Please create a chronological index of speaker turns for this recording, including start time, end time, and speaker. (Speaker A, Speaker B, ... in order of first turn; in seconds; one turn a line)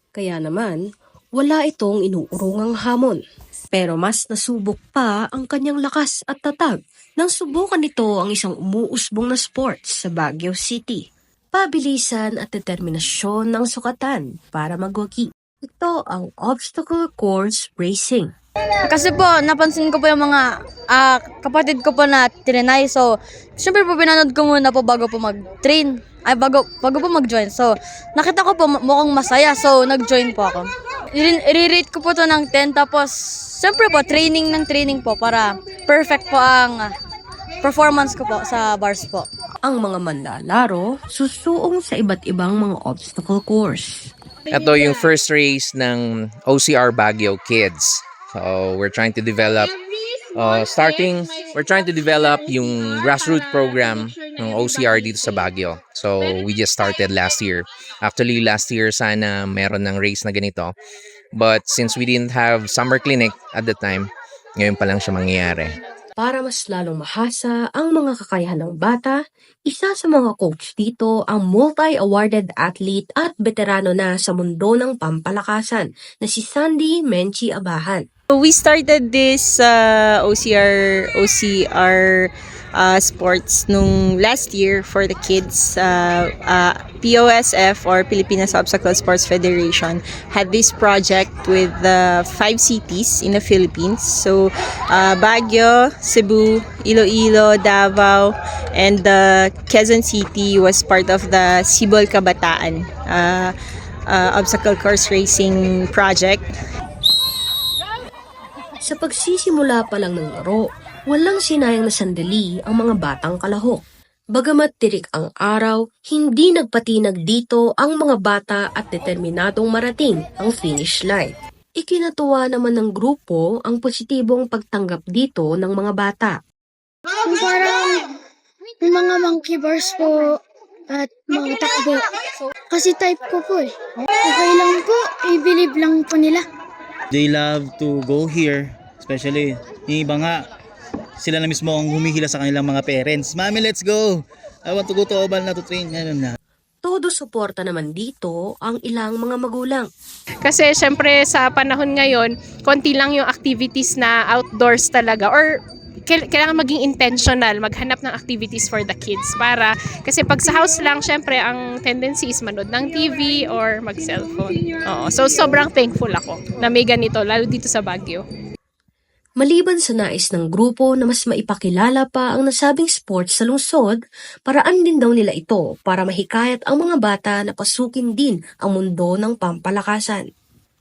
Speaker A: 0.1-0.8
Speaker A: 1.4-3.2
Speaker A: 3.7-18.3
Speaker B: 18.9-36.9
Speaker B: 37.6-39.2
Speaker A: 39.6-44.0
Speaker C: 44.5-49.7
Speaker C: 50.3-60.7
Speaker C: 61.3-65.7
Speaker A: 66.2-69.2
Speaker A: 69.7-78.0
Speaker D: 78.3-103.5
Speaker D: 104.1-106.5
Speaker A: 108.8-113.8
Speaker A: 114.3-126.3
Speaker E: 127.2-128.1
Speaker E: 128.8-130.4
Speaker E: 130.9-132.0
Speaker E: 132.7-133.7
Speaker E: 134.2-136.4
Speaker F: 137.1-140.4
Speaker F: 141.2-146.3
Speaker A: 146.8-149.8
Speaker G: 150.4-155.5
Speaker G: 156.1-168.2
Speaker A: 169.4-180.2